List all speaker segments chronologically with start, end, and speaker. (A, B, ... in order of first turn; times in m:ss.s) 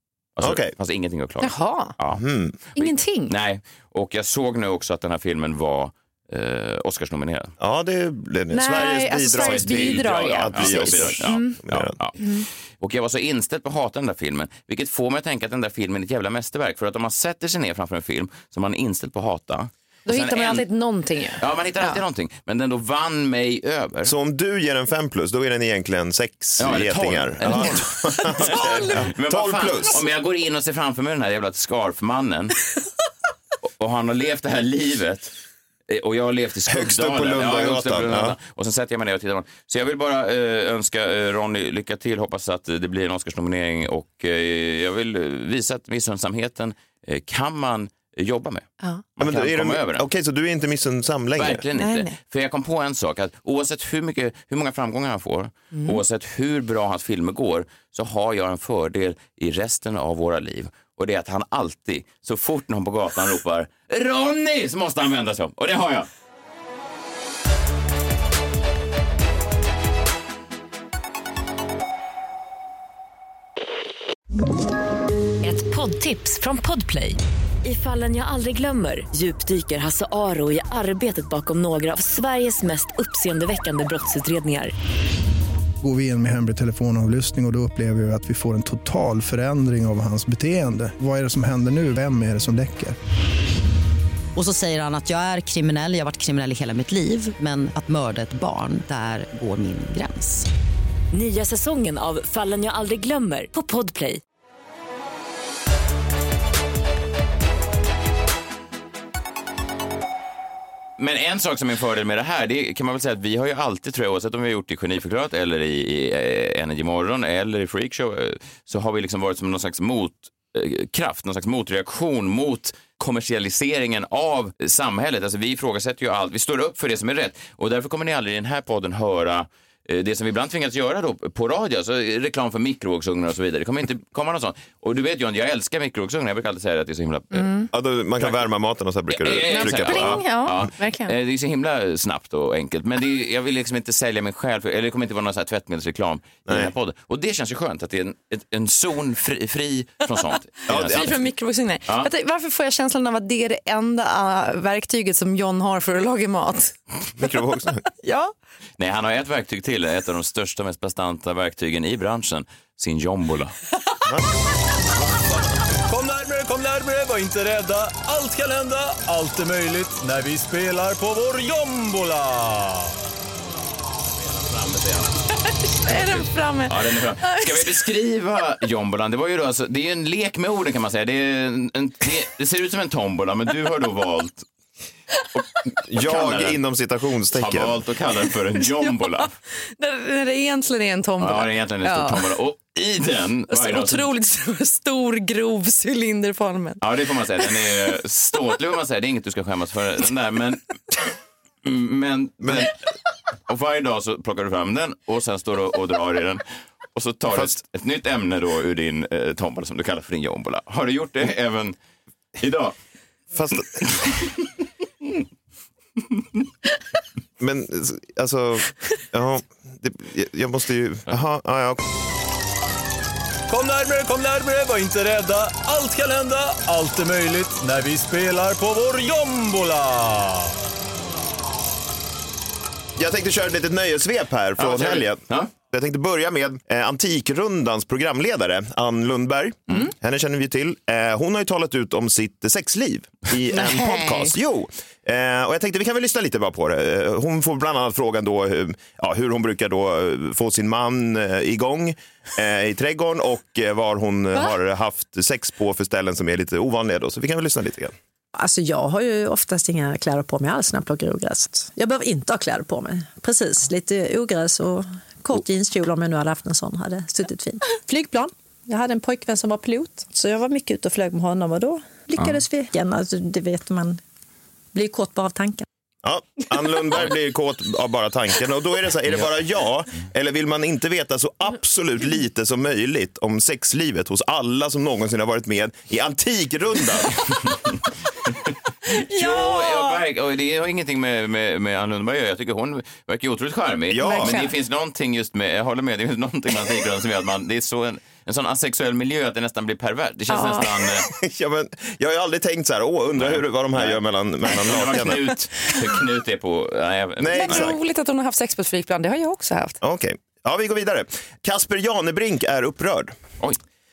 0:00.4-0:07.5 A
0:00.4-0:00.7 B
0:01.4-0:01.9 C
0:02.1-0:02.5 B
0:02.8-0:03.3 C
0:07.6-0:11.9 B
0:08.5-0:11.6 C
0:09.3-0:12.2 A
0:12.2-0:12.4 C
0:12.8-0:20.6 A
0:20.0-0:22.0 C
0:21.4-0:24.1 A
0:24.0-0:30.0 B
0:26.6-0:32.6 A
0:27.5-0:29.1 C
0:33.8-0:35.3 A
0:35.9-0:50.0 A
0:36.7-0:38.4 B
0:49.2-0:51.6 B
0:51.4-1:06.1 A
0:51.8-0:52.1 C
0:55.7-0:56.0 C
1:15.4-1:24.7 D
1:25.8-1:33.0 E
1:34.3-1:40.5 F
1:41.1-1:44.2 D
1:51.0-2:17.6 A
2:17.3-2:17.7 C
2:17.7-2:20.2 B
2:18.2-2:18.4 A
2:19.1-2:31.2 A
2:19.4-2:21.1 C
2:26.5-2:26.7 B
2:30.7-2:31.1 B
2:30.8-2:36.7 C
2:37.2-2:37.8 B
2:38.0-2:38.3 C
2:38.8-2:43.6 A
2:45.0-2:45.3 B
2:45.9-2:52.9 G
2:54.2-2:55.2 A
2:55.4-2:57.8 C
2:55.9-3:04.4 A
3:05.9-3:07.8 B
3:05.9-3:06.6 A
3:07.3-3:09.3 A
3:08.8-3:12.2 C
3:11.2-3:14.1 A
3:13.5-3:16.8 C
3:16.8-3:21.1 A
3:21.6-3:22.8 A
3:22.4-3:22.7 B
3:23.5-3:31.8 A
3:32.4-3:32.7 A
3:33.3-3:33.9 B
3:33.8-3:34.2 A
3:37.4-3:41.8 B
3:43.5-3:50.5 G
3:53.0-4:17.9 B
3:54.6-3:55.5 A
4:03.5-4:04.3 C
4:18.3-4:34.0 H
4:34.7-4:35.6 H
4:36.0-4:47.1 B
4:48.9-4:50.0 C
4:49.1-5:01.1 A
4:53.9-4:54.4 B
4:54.0-4:54.5 C
5:00.3-5:00.7 C
5:01.2-5:05.3 B
5:03.2-5:07.7 A
5:07.2-5:07.8 B
5:07.3-5:09.8 C
5:09.8-5:13.2 B